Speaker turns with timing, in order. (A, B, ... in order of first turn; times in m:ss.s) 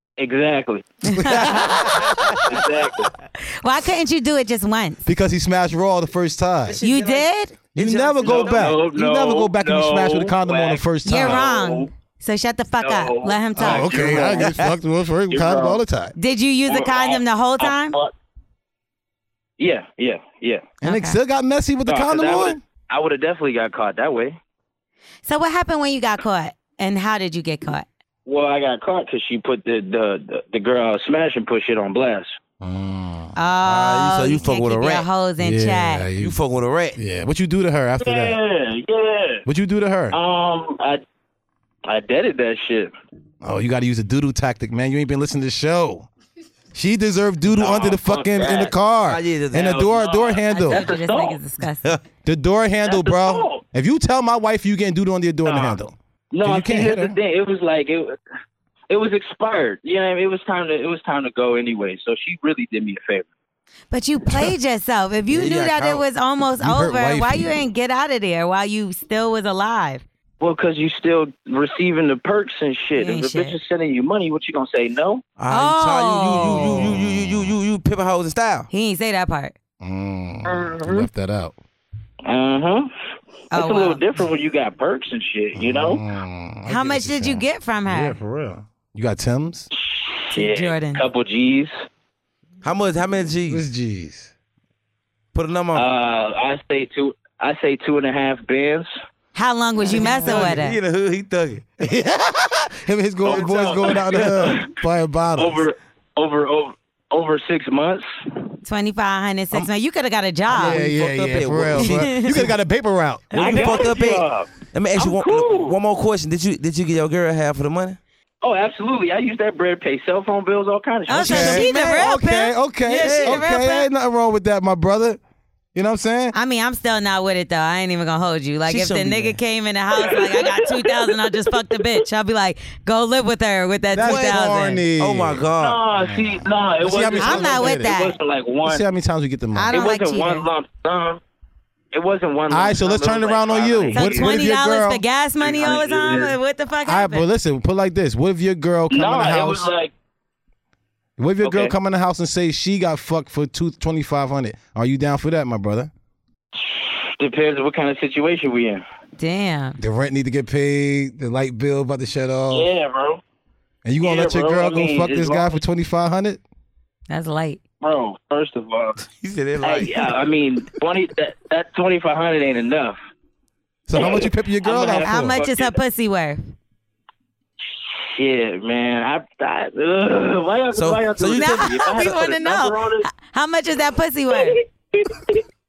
0:00.2-0:00.9 A
0:01.1-0:02.0 B
0:02.5-0:03.1 A
0:03.6-0:05.0 B
0:05.1-0:06.8 C
0:06.7-0:08.8 D
0:06.8-0:07.5 B
0:07.8-0:11.5 C
0:08.2-0:11.9 A
0:11.0-0:14.4 B
0:12.8-0:14.5 A
0:13.6-0:16.2 C
0:14.4-0:14.7 D
0:15.3-0:15.8 A
0:16.2-0:18.0 B
0:16.7-0:18.1 A
0:19.6-0:20.7 A
0:20.8-0:22.6 C
0:20.8-0:21.2 B
0:21.9-0:24.4 A
0:25.3-0:27.9 B
0:28.3-0:32.3 A
0:32.6-0:33.4 C
0:33.4-0:36.1 B
0:33.6-0:35.1 D
0:35.4-0:36.4 C
0:36.2-0:37.0 D
0:37.0-0:38.4 C
0:38.0-0:39.4 A
0:39.5-0:40.2 C
0:40.1-0:41.0 A
0:41.9-0:42.9 A
0:43.4-0:46.1 C
0:46.7-0:50.9 C
0:47.5-0:48.7 A
0:49.1-0:49.9 D
0:49.6-0:51.4 A
0:50.5-0:52.0 B
0:52.2-0:57.2 C
0:52.8-0:53.6 A
0:55.4-0:55.8 A
0:56.3-0:58.1 A
0:58.9-1:03.3 A
1:03.9-1:10.0 B
1:05.3-1:06.0 D
1:06.6-1:07.6 C
1:10.4-1:15.2 A
1:13.0-1:13.6 B
1:15.4-1:18.7 D
1:15.5-1:16.8 B
1:16.4-1:17.5 C
1:18.7-1:19.5 B
1:19.8-1:21.6 C
1:20.5-1:21.1 A
1:22.3-1:22.9 A
1:23.5-1:24.0 B
1:23.5-1:26.0 A
1:25.6-1:29.7 C
1:26.7-1:28.2 B
1:29.8-1:31.7 A
1:30.3-1:31.0 B
1:32.6-1:33.6 D
1:33.5-1:34.3 C
1:35.3-1:35.9 D
1:35.7-1:38.9 A
1:39.4-1:40.8 B
1:39.9-1:41.6 D
1:41.8-1:45.7 C
1:43.2-1:44.6 A
1:45.4-1:48.1 A
1:48.6-1:50.8 B
1:50.5-1:53.9 C
1:50.5-1:52.1 D
1:51.8-1:52.4 B
1:53.3-1:53.6 B
1:53.4-1:55.8 A
1:53.4-1:58.0 D
1:58.4-2:01.7 A
2:01.1-2:03.9 B
2:01.1-2:05.2 C
2:02.9-2:03.4 D
2:05.8-2:06.4 C
2:06.3-2:14.8 B
2:08.7-2:09.4 D
2:10.0-2:11.5 A
2:13.9-2:18.0 C
2:14.0-2:14.4 D
2:15.0-2:15.8 D
2:15.6-2:18.8 A
2:17.2-2:18.2 B
2:18.6-2:19.8 C
2:19.6-2:20.5 B
2:19.7-2:21.2 A
2:21.9-2:24.4 A
2:22.5-2:25.0 C
2:23.9-2:27.2 B
2:25.4-2:26.4 A
2:26.9-2:29.7 C
2:28.9-2:29.9 A
2:31.2-2:35.9 C
2:31.4-2:31.7 A
2:36.5-2:38.8 A
2:39.2-2:39.8 B
2:39.8-2:42.7 C
2:42.5-2:43.2 A
2:43.8-2:46.4 C
2:44.0-2:45.6 A
2:47.1-2:47.6 B
2:47.8-2:49.0 A
2:49.1-2:50.2 D
2:49.6-2:53.0 A
2:53.9-2:55.4 C
2:54.0-2:55.8 A
2:54.8-2:56.5 B
2:57.8-3:03.1 A
3:00.8-3:01.9 D
3:01.4-3:04.6 B